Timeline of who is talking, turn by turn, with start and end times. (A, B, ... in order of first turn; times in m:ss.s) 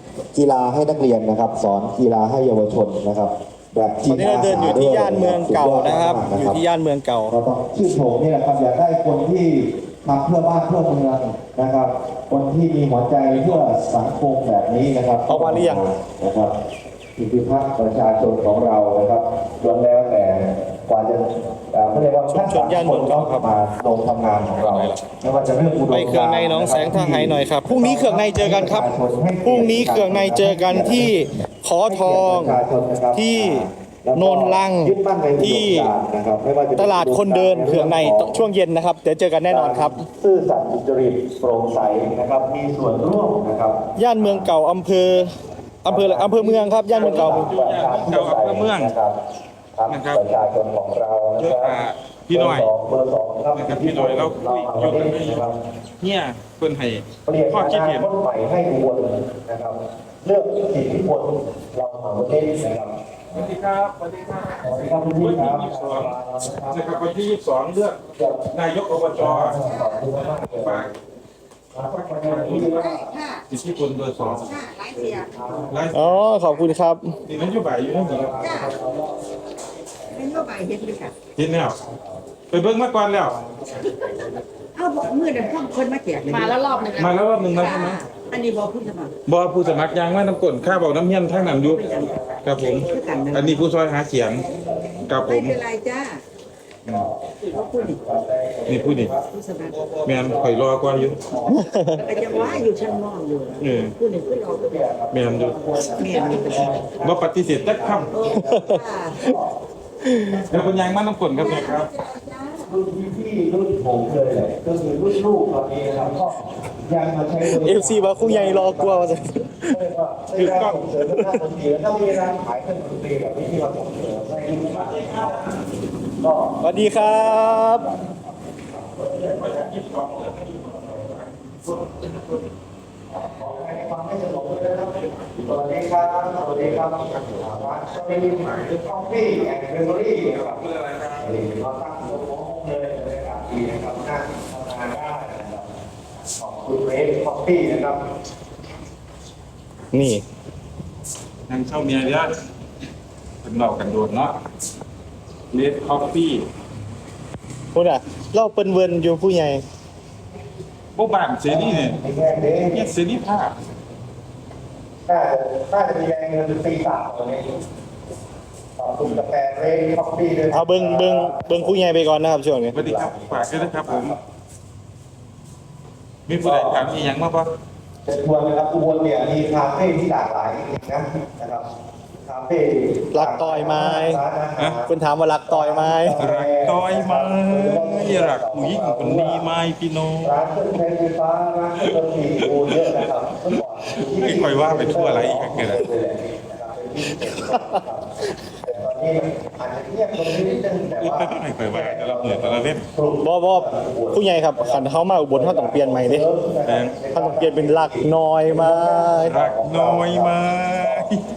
0:00.3-0:06.6 A
0:04.1-0:07.4 B
0:07.3-0:16.5 A
0:13.3-0:13.6 C
0:15.2-0:15.8 B
0:17.2-0:38.4 A
0:22.3-0:23.5 B
0:24.6-0:24.9 C
0:25.9-0:28.9 B
0:29.4-0:32.6 B
0:33.1-0:35.9 B
0:36.8-0:40.0 B
0:39.5-0:44.5 A
0:44.0-0:45.3 B
0:45.8-0:47.5 B
0:45.8-0:49.2 A
0:46.9-0:48.9 C
0:49.8-0:51.8 A
0:49.9-0:50.2 C
0:51.4-0:52.7 C
0:52.3-0:55.6 A
0:53.5-0:55.4 C
0:56.0-0:58.1 C
0:57.2-1:02.9 A
1:03.3-1:06.2 C
1:04.6-1:06.9 A
1:06.7-1:08.0 C
1:08.2-1:08.5 A
1:08.5-1:09.6 C
1:09.2-1:10.9 A
1:10.4-1:10.9 C
1:11.7-1:13.2 A
1:11.9-1:12.9 C
1:12.6-1:13.4 D
1:13.5-1:14.5 C
1:14.2-1:16.1 A
1:14.4-1:15.3 D
1:15.7-1:16.2 C
1:15.9-1:17.2 B
1:17.3-1:18.6 C
1:17.4-1:20.6 A
1:18.4-1:18.7 D
1:20.1-1:21.1 D
1:21.4-1:21.8 C
1:21.5-1:22.3 A
1:22.5-1:23.3 C
1:23.1-1:28.3 A
1:24.7-1:29.1 D
1:27.0-1:28.0 C
1:29.2-1:34.4 C
1:29.6-1:30.2 A
1:31.2-1:33.4 A
1:31.4-1:33.6 D
1:34.4-1:35.0 A
1:35.0-1:35.6 C
1:35.2-1:36.2 D
1:36.9-1:43.1 A
1:37.4-1:38.1 D
1:38.7-1:39.1 C
1:39.3-1:39.8 D
1:40.0-1:41.2 C
1:41.5-1:42.0 B
1:41.8-1:44.8 D
1:43.6-1:43.9 C
1:44.4-1:49.5 A
1:45.1-1:45.6 C
1:45.9-1:46.8 D
1:46.4-1:48.1 C
1:48.1-1:49.3 D
1:48.4-1:49.3 B
1:50.0-1:50.5 B
1:50.5-1:51.9 C
1:51.3-1:52.7 D
1:52.6-1:59.1 A
1:57.4-1:59.8 B
1:59.7-2:05.4 A
2:00.4-2:00.8 C
2:00.4-2:01.4 B
2:04.6-2:05.6 C
2:06.2-2:11.1 A
2:06.6-2:07.9 B
2:09.2-2:12.4 C
2:13.1-2:20.6 A
2:15.0-2:21.3 C
2:21.2-2:25.6 A
2:26.4-2:28.0 A
2:29.9-2:30.2 B
2:31.5-2:32.3 C
2:33.4-2:34.3 C
2:35.5-2:36.4 C
2:37.7-2:39.6 B
2:41.0-2:42.0 C
2:41.4-2:42.9 A
2:42.7-2:43.5 C
2:45.1-2:47.5 A
2:48.8-2:51.8 A
2:50.5-2:52.8 B
2:52.7-2:54.2 C
2:52.7-2:54.2 A
2:56.3-2:57.5 C
2:56.4-2:57.0 A
2:58.0-3:01.6 A
3:02.2-3:04.9 A
3:03.1-3:04.2 B
3:04.9-3:06.2 B
3:05.5-3:09.4 A
3:06.2-3:10.3 C
3:10.2-3:18.1 A
3:12.6-3:13.0 C
3:14.0-3:15.9 C
3:18.6-3:31.1 A
3:20.9-3:22.8 C
3:23.2-3:26.2 B
3:26.6-3:26.9 C
3:27.1-3:29.3 B
3:29.3-3:31.2 C